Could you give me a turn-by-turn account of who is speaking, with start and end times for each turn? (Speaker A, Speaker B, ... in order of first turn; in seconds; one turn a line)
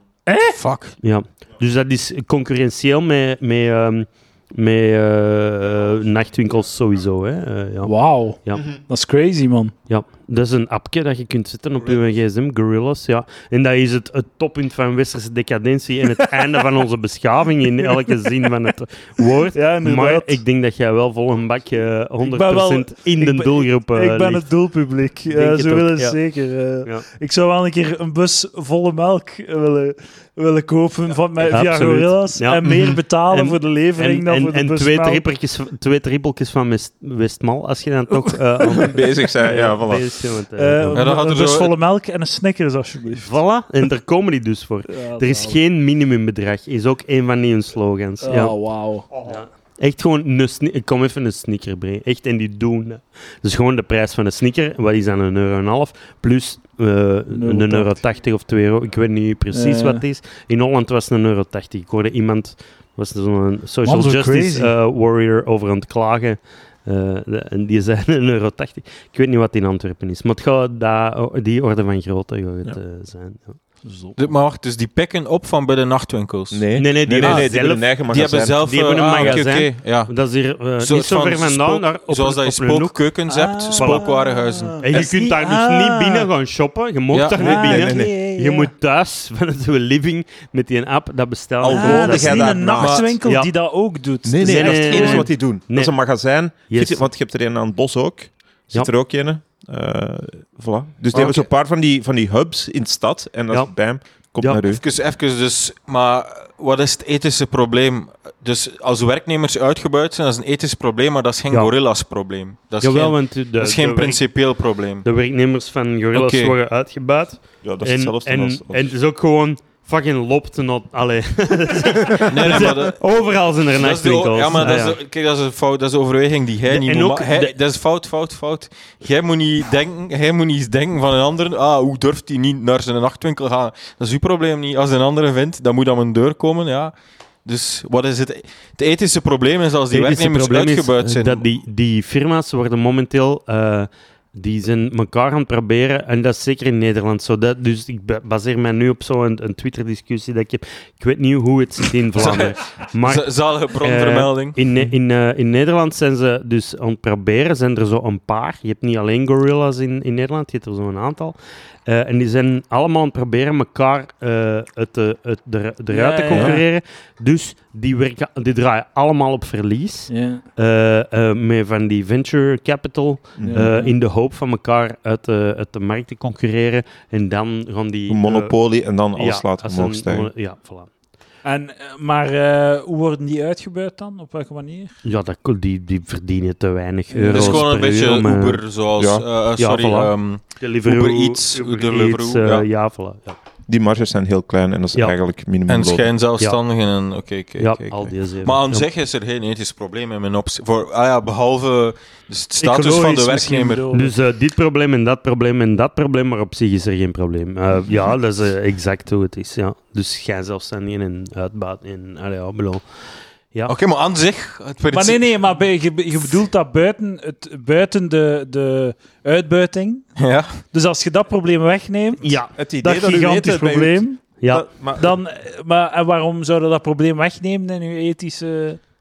Speaker A: 0.3-0.6
Speaker B: 0.6-1.0
Speaker C: 1.0-8.7
Speaker A: 7.8-9.7
Speaker C: 9.9-24.4
Speaker A: 19.5-20.4
Speaker A: 22.2-35.2
Speaker C: 25.3-26.3
Speaker C: 31.4-41.0
Speaker D: 32.6-33.0
Speaker D: 38.7-40.1
Speaker A: 40.5-43.4
Speaker B: 40.9-41.8
Speaker C: 43.2-73.6
Speaker A: 45.0-45.6
Speaker A: 48.2-49.1
Speaker D: 49.1-49.4
Speaker A: 57.3-58.0
Speaker A: 59.5-60.0
Speaker A: 63.8-64.7
Speaker A: 73.8-74.3
Speaker B: 74.2-77.5
Speaker D: 76.5-79.4
Speaker C: 76.8-77.9
Speaker B: 78.1-85.0
Speaker C: 78.6-83.1
Speaker A: 83.3-86.3
Speaker C: 83.8-84.1
Speaker C: 84.8-93.5
Speaker B: 87.1-87.5
Speaker A: 87.4-88.7
Speaker D: 87.5-88.1
Speaker D: 91.6-93.1
Speaker A: 91.7-95.3
Speaker D: 94.2-104.8
Speaker C: 94.4-96.0
Speaker C: 96.7-97.1
Speaker B: 104.7-115.0
Speaker C: 112.8-125.0
Speaker B: 116.1-116.5
Speaker D: 117.6-118.9
Speaker B: 122.3-123.2
Speaker D: 122.5-122.8
Speaker B: 123.8-141.4
Speaker C: 126.7-127.5
Speaker C: 139.9-178.6
Speaker B: 152.1-154.6
Speaker A: 165.9-166.6
Speaker D: 166.3-166.6
Speaker A: 170.1-170.4
Speaker D: 173.3-173.7
Speaker A: 173.4-173.9
Speaker D: 178.1-180.3
Speaker C: 179.1-180.9
Speaker A: 181.4-184.9
Speaker C: 185.0-188.6
Speaker A: 187.1-187.6
Speaker B: 187.3-192.7
Speaker D: 189.0-189.2
Speaker C: 189.6-193.4
Speaker D: 193.7-196.1
Speaker B: 195.7-203.9
Speaker C: 197.6-198.9
Speaker A: 202.6-204.1
Speaker C: 203.9-212.9
Speaker B: 213.7-215.6
Speaker A: 214.9-220.1
Speaker B: 220.2-220.6
Speaker A: 220.7-224.2
Speaker C: 222.2-222.5
Speaker D: 222.6-225.1
Speaker C: 224.4-224.6
Speaker A: 224.9-228.8